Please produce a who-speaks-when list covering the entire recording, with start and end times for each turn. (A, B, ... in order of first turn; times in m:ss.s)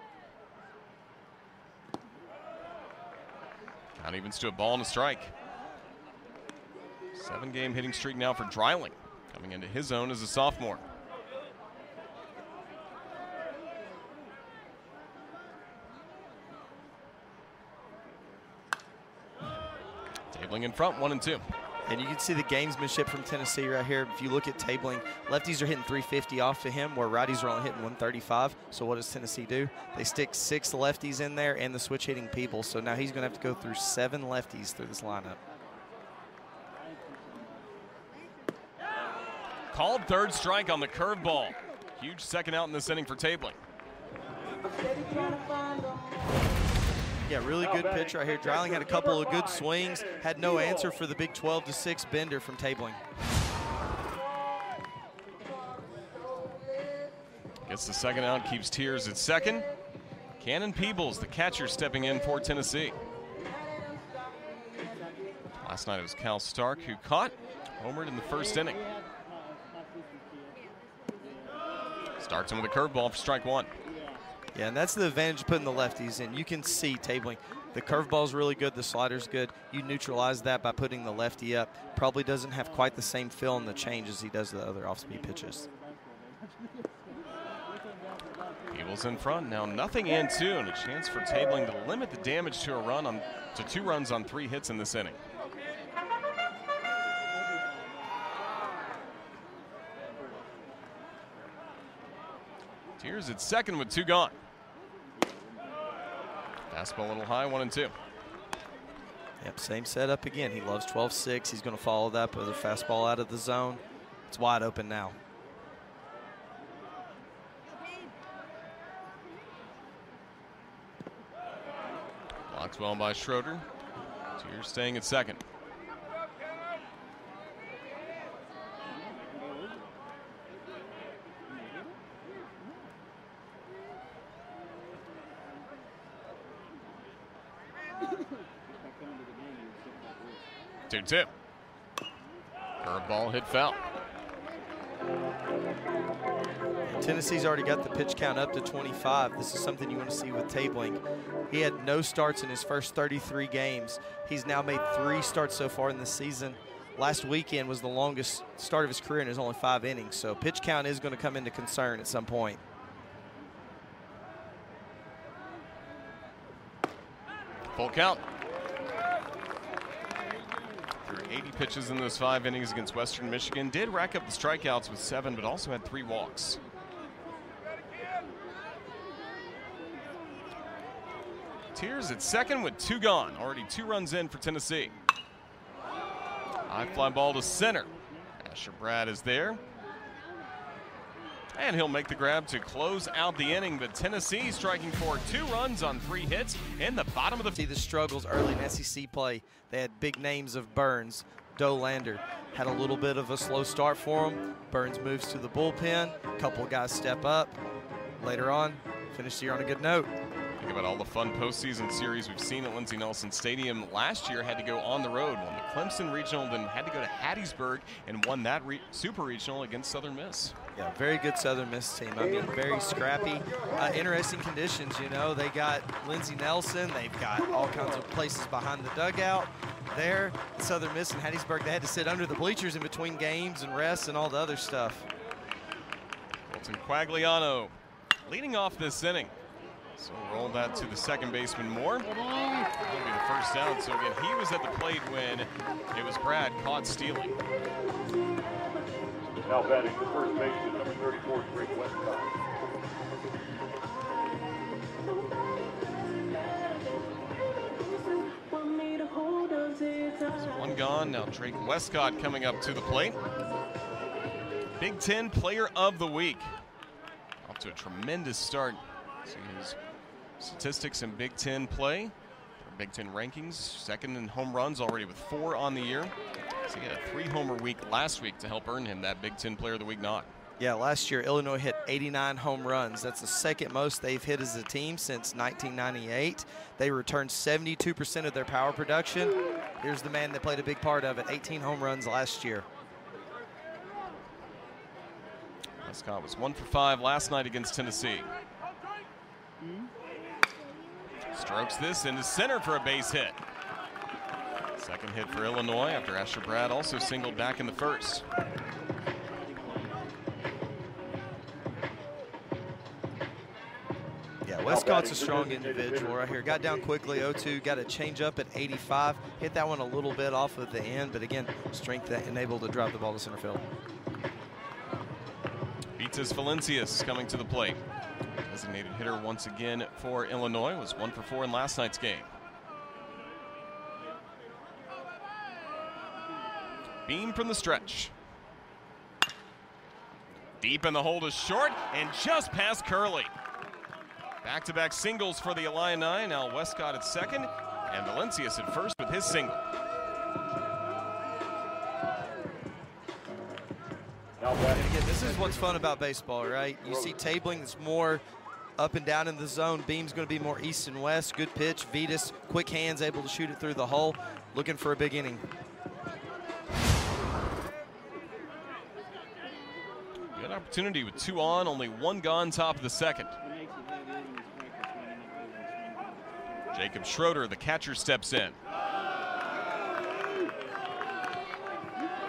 0:04.0-0:05.3 A
0:07.2-0:10.8 A
0:20.3-0:21.4 A
0:21.9-0:35.4 B
0:39.7-0:43.6 A
0:47.2-0:53.0 B
0:47.6-0:51.0 C
0:57.7-0:59.7 A
1:00.4-1:03.0 A
1:05.6-1:08.9 A
1:12.2-1:13.7 A
1:14.5-1:25.7 B
1:28.7-1:35.2 A
1:43.0-1:44.4 A
1:46.7-1:47.9 A
1:49.4-1:55.2 B
2:02.5-2:03.7 A
2:04.4-2:05.4 A
2:20.9-2:21.3 A
2:22.8-2:23.8 A
2:26.9-2:42.6 B
2:47.8-2:48.2 A
2:51.0-2:56.6 A
3:01.7-3:05.0 A
3:06.7-3:09.6 A
3:11.6-3:17.6 A
3:17.6-3:27.6 B
3:28.2-3:30.1 B
3:30.6-3:40.6 A
3:40.8-3:55.1 B
3:56.5-3:57.8 A
3:58.3-3:59.4 A
4:00.0-4:02.1 A
4:02.8-4:07.4 A
4:09.5-4:12.3 C
4:20.1-4:23.2 A
4:24.8-4:26.6 A
4:27.4-4:29.8 A
4:30.4-4:36.1 A
4:36.6-4:40.3 A
4:40.6-4:52.7 B
4:55.8-4:58.3 A
5:01.3-5:03.4 A
5:04.8-5:08.2 A
5:14.4-5:23.7 B
5:14.7-5:16.9 C
5:26.0-5:27.8 A
5:28.4-5:32.3 A
5:37.1-5:38.1 A
5:40.6-5:43.3 A
5:44.4-5:49.6 A
5:54.4-5:55.8 C
5:54.7-5:58.2 B
5:56.9-5:57.2 C
5:58.8-6:05.5 B
6:10.4-6:13.4 A
6:16.7-6:18.6 A